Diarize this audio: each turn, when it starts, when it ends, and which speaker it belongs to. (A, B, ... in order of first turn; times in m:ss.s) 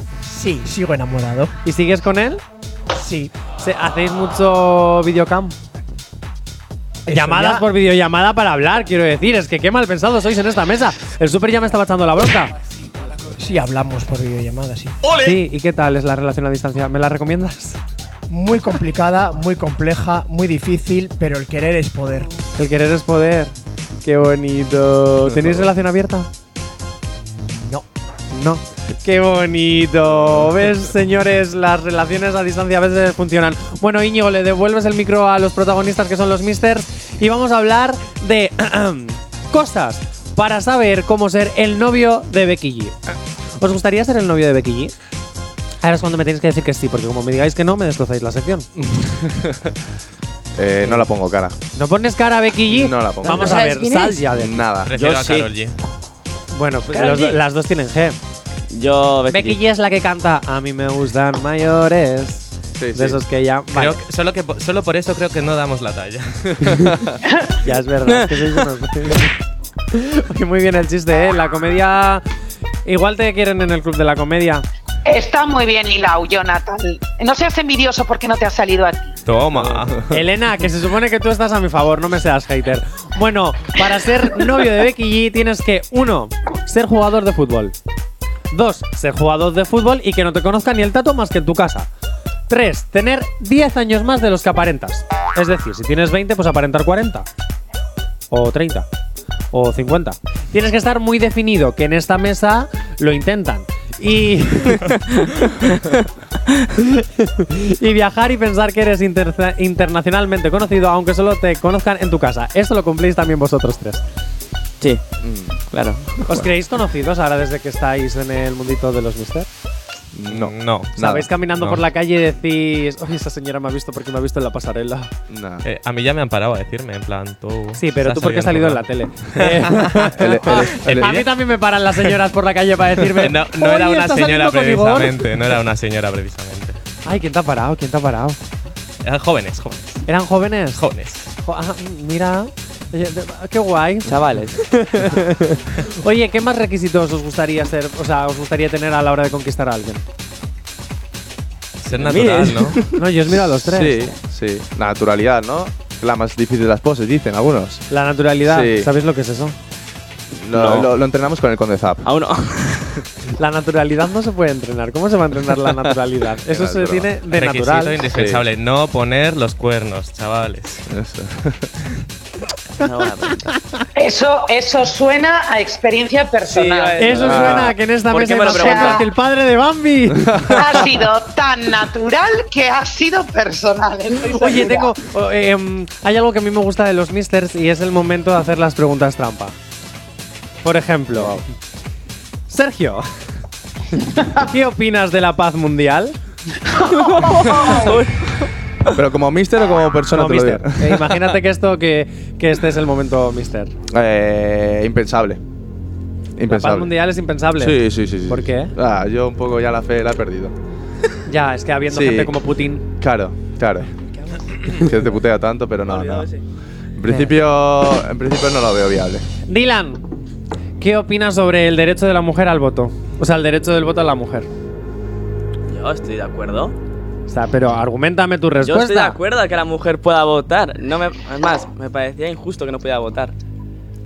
0:00.2-0:01.5 A
0:01.6-0:02.4 B
0:02.9-0:03.3 A
0:03.6-0:05.6 B
0:07.0-0:07.7 A
0:07.1-0:12.5 B
0:13.4-0:15.0 A
0:15.2-0:17.8 B
0:18.3-0:22.3 A
0:22.6-0:26.3 B
0:25.3-0:25.6 C
0:27.4-0:27.8 A
0:28.3-0:43.0 B
0:43.6-0:44.9 B
0:45.8-0:48.7 B
0:48.8-0:49.7 C
0:50.6-0:51.5 C
0:51.7-0:55.4 B
0:52.7-0:53.7 C
0:54.3-0:54.9 C
0:54.8-0:55.7 D
0:56.5-0:58.2 B
0:57.1-0:57.4 E
0:58.7-0:59.6 E
0:59.3-1:04.0 B
1:02.8-1:03.2 C
1:03.7-1:06.7 D
1:06.7-1:07.1 C
1:07.6-1:09.3 B
1:08.1-1:08.4 E
1:09.9-1:12.2 B
1:12.8-1:14.6 B
1:15.0-1:19.2 F
1:19.2-1:20.0 D
1:20.1-1:27.7 B
1:28.5-1:31.9 B
1:32.5-1:37.2 B
1:38.3-1:38.9 B
1:39.5-1:44.9 B
1:46.8-1:54.0 B
1:55.2-1:55.6 C
1:55.7-1:56.1 E
1:56.3-1:59.5 B
2:00.1-2:01.2 C
2:00.3-2:01.0 D
2:01.0-2:05.1 B
2:01.5-2:01.8 D
2:05.3-2:05.6 C
2:05.6-2:08.8 D
2:07.8-2:15.3 B
2:10.1-2:11.2 C
2:10.5-2:11.3 D
2:13.2-2:16.8 D
2:17.0-2:18.4 B
2:19.0-2:20.0 D
2:20.0-2:20.8 B
2:20.8-2:21.3 D
2:21.4-2:30.0 B
2:24.0-2:24.6 E
2:31.8-2:32.8 D
2:32.0-2:33.0 E
2:32.9-2:34.1 B
2:33.5-2:37.8 C
2:37.9-2:39.6 B
2:38.4-2:38.9 C
2:40.3-2:42.0 C
2:40.5-2:40.9 E
2:42.0-2:43.0 E
2:43.4-2:48.0 B
2:45.6-2:47.1 C
2:47.3-2:50.8 D
2:48.1-2:48.4 C
2:50.9-2:51.7 C
2:52.8-2:53.4 E
2:54.0-2:57.0 F
2:56.4-2:59.0 E
2:57.0-3:00.9 B
2:57.2-2:57.7 C
2:58.5-2:59.0 F
3:00.1-3:00.6 C
3:00.6-3:04.9 F
3:04.3-3:09.5 B
3:10.6-3:11.4 B
3:11.1-3:11.4 C
3:12.5-3:13.1 B
3:14.1-3:16.2 B
3:16.9-3:18.5 E
3:17.5-3:17.8 F
3:18.9-3:21.3 C
3:20.1-3:23.7 B
3:23.9-3:25.4 C
3:26.4-3:26.9 C
3:26.5-3:28.7 B
3:27.6-3:30.5 C
3:31.3-3:32.8 B
3:31.9-3:32.4 C
3:33.0-3:33.9 C
3:34.7-3:36.3 C
3:35.8-3:36.4 E
3:37.0-3:39.2 C
3:39.5-3:40.0 B
3:40.8-3:44.5 B
3:45.7-3:46.7 E
3:47.3-3:49.2 B
3:48.6-3:53.3 E